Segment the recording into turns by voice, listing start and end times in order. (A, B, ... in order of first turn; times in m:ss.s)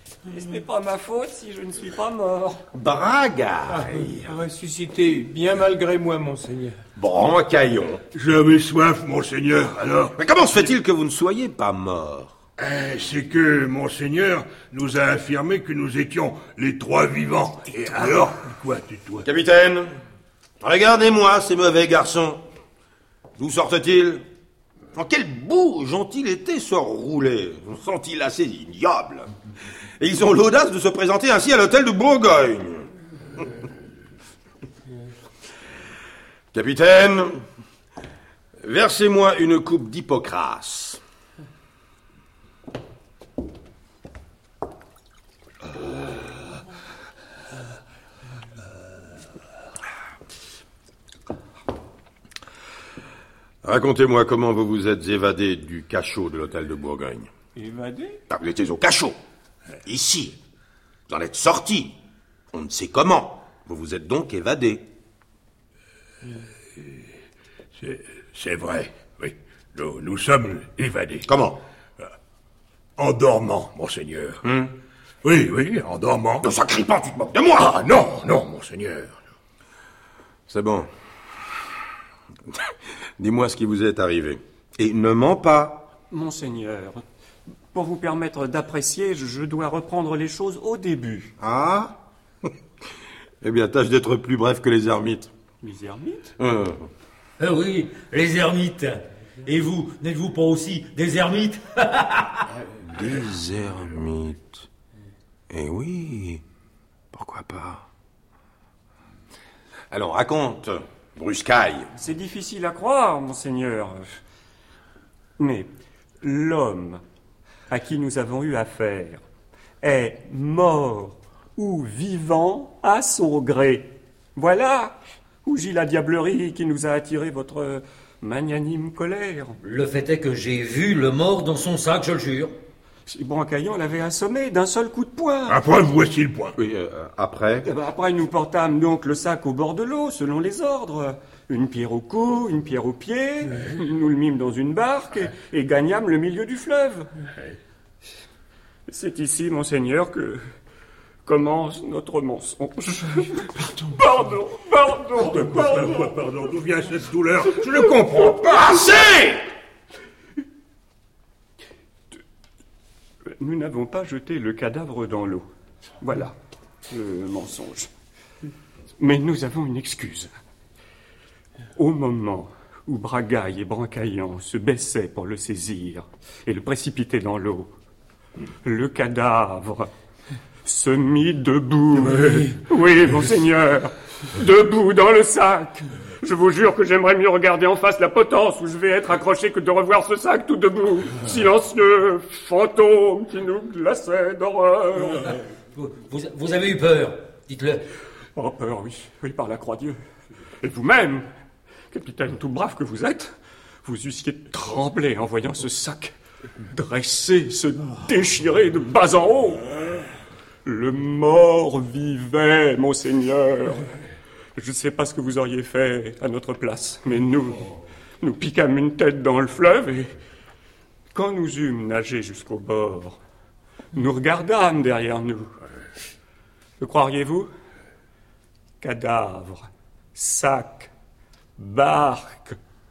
0:00.3-0:02.6 A
0:02.8-0:04.2 B
0:04.3-0:06.8 C
0:07.0-0:08.0 B
0:08.1-0:10.1 D
0:10.2-0:12.4 B
0:12.6-0:19.2 D
0:19.2-0:19.9 B
0:20.6-0:22.4 B
0:23.4-0:24.2 B
0:25.0-0:29.3 B
0:30.0-0:32.9 B
0:36.5-0:37.4 B
0:38.6-0:41.0 B
0:53.6-0:57.3 B
0:57.6-0:58.2 A
0:58.3-0:59.2 B
0:59.8-1:00.4 B
1:01.1-1:02.0 B
1:02.5-1:04.9 B
1:07.8-1:11.3 D
1:11.3-1:11.6 B
1:13.0-1:14.4 D
1:14.4-1:14.7 B
1:15.2-1:16.5 D
1:16.4-1:17.8 B
1:17.6-1:19.2 D
1:20.5-1:20.9 B
1:23.2-1:25.9 B
1:26.1-1:27.0 A
1:27.7-1:31.3 A
1:31.4-1:32.0 B
1:33.4-1:35.3 B
1:35.6-1:36.4 A
1:36.4-1:36.9 B
1:37.4-1:42.4 E
1:42.8-1:44.7 B
1:45.5-1:46.4 B
1:47.1-1:47.9 B
1:49.9-1:51.9 B
1:52.0-1:54.2 A
1:55.4-1:55.7 A
1:56.2-1:57.0 A
1:57.7-1:59.2 A
1:59.8-2:09.6 A
2:09.6-2:12.5 E
2:13.1-2:15.6 A
2:15.5-2:16.5 D
2:16.6-2:17.7 B
2:17.6-2:27.1 A
2:28.9-2:30.4 A
2:31.3-2:36.2 A
2:35.2-2:39.2 D
2:43.4-2:45.5 A
2:46.0-2:46.4 A
2:46.9-2:47.9 A
2:49.0-2:50.3 A
2:51.8-2:57.7 A
2:58.6-2:59.9 A
3:00.6-3:15.3 A
3:02.1-3:02.5 D
3:15.2-3:17.8 E
3:18.4-3:20.0 A
3:20.6-3:21.3 A
3:21.9-3:23.3 A
3:23.8-3:26.1 A
3:26.7-3:30.0 A
3:30.6-3:33.9 A
3:34.6-3:40.2 A
3:41.1-3:43.2 A
3:43.9-3:45.6 A
3:46.8-3:47.5 A
3:48.8-3:50.9 A
3:51.6-3:52.6 A